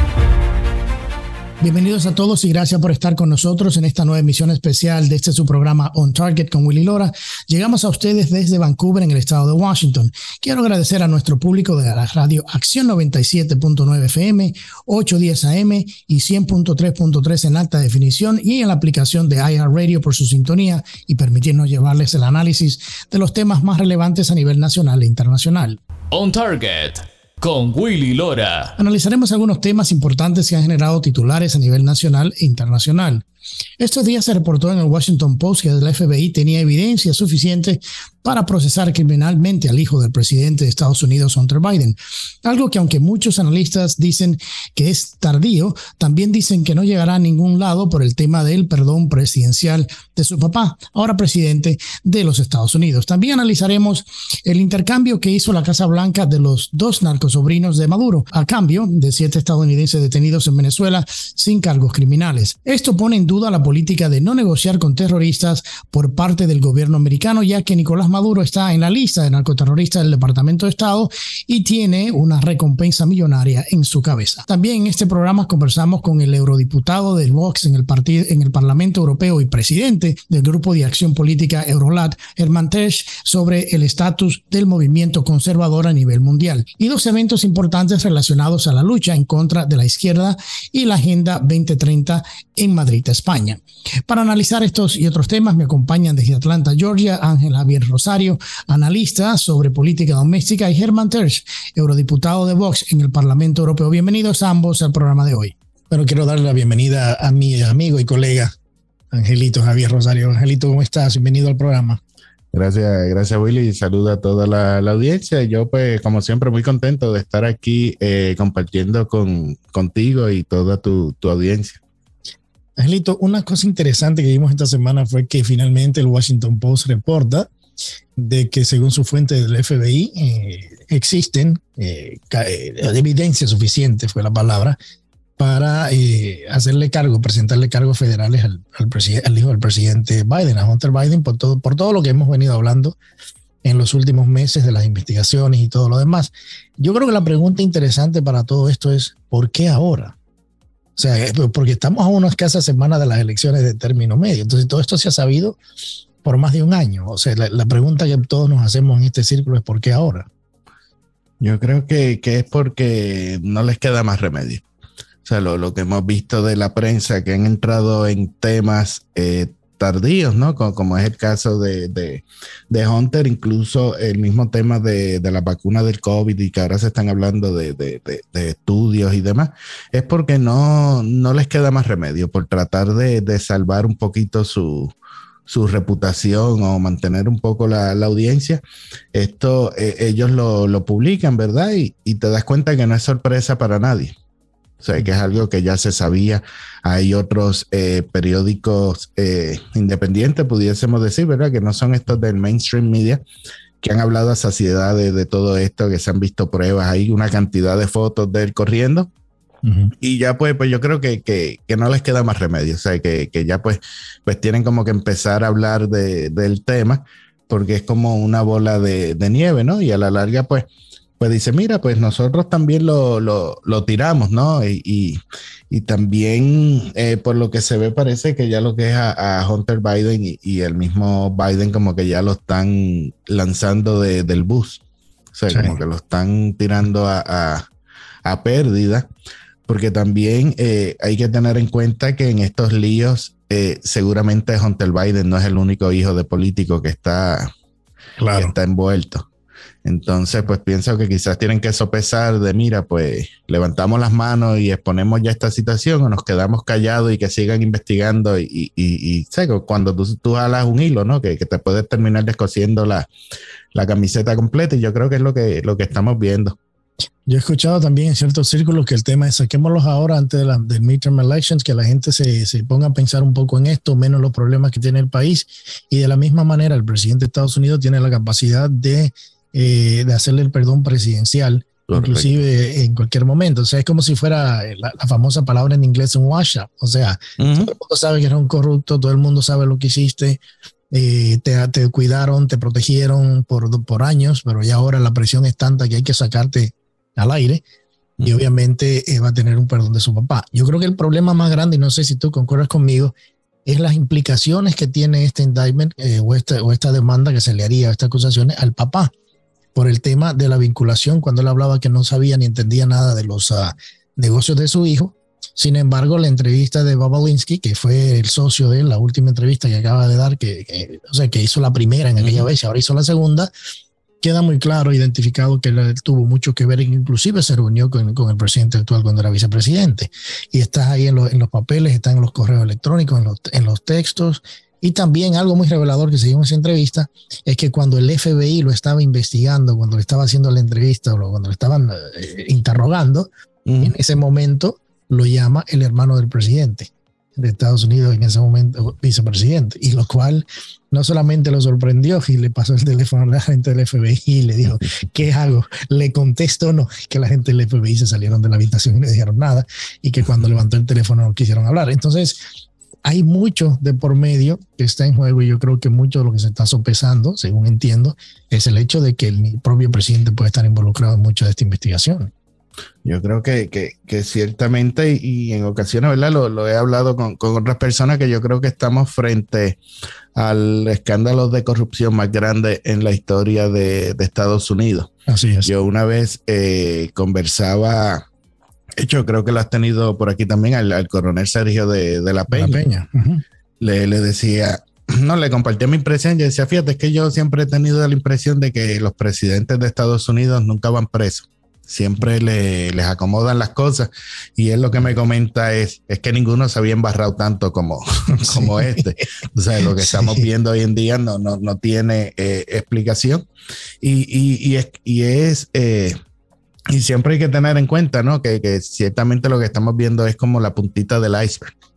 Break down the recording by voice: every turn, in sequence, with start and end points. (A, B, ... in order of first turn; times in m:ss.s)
0:01.6-0:25.8 A
0:26.1-0:28.8 B
0:28.8-0:33.2 A
0:33.8-1:45.5 A
1:45.9-1:48.5 C
1:49.1-1:52.0 C
1:52.5-2:01.8 D
2:02.8-2:07.5 C
2:08.2-2:14.8 C
2:15.4-2:23.0 C
2:23.6-2:30.1 C
2:31.0-2:35.6 C
2:36.2-2:40.3 C
2:41.4-2:44.6 D
2:45.2-3:04.9 D
3:05.5-3:08.6 D
3:09.1-3:14.2 D
3:14.8-3:23.2 D
3:23.8-3:29.1 D
3:29.6-3:29.9 C
3:30.0-3:40.6 D
3:41.2-3:45.2 D
3:45.7-3:54.8 D
3:55.3-3:57.7 D
3:55.5-3:55.8 C
3:58.2-3:59.1 D
3:59.7-4:07.5 D
4:08.2-4:08.5 C
4:08.4-4:09.3 D
4:09.8-4:23.1 D
4:23.7-4:26.6 D
4:27.2-4:50.4 C
4:41.9-4:42.4 D
4:47.4-4:47.7 D
4:50.9-4:57.6 C
4:58.2-5:03.1 C
5:03.6-5:09.1 C
5:09.7-5:23.5 C
5:22.2-5:22.4 D
5:24.2-5:43.3 C
5:43.6-5:43.9 D
5:43.8-6:02.4 C
6:03.0-6:12.3 C
6:13.0-6:19.8 D
6:20.3-6:25.1 D
6:25.3-6:25.7 C
6:25.6-6:28.2 D
6:29.0-6:32.8 D
6:32.5-6:33.4 C
6:33.8-6:53.5 D
6:48.3-6:49.0 C
6:50.0-6:50.4 C
6:54.0-6:56.2 D
6:56.9-7:01.7 D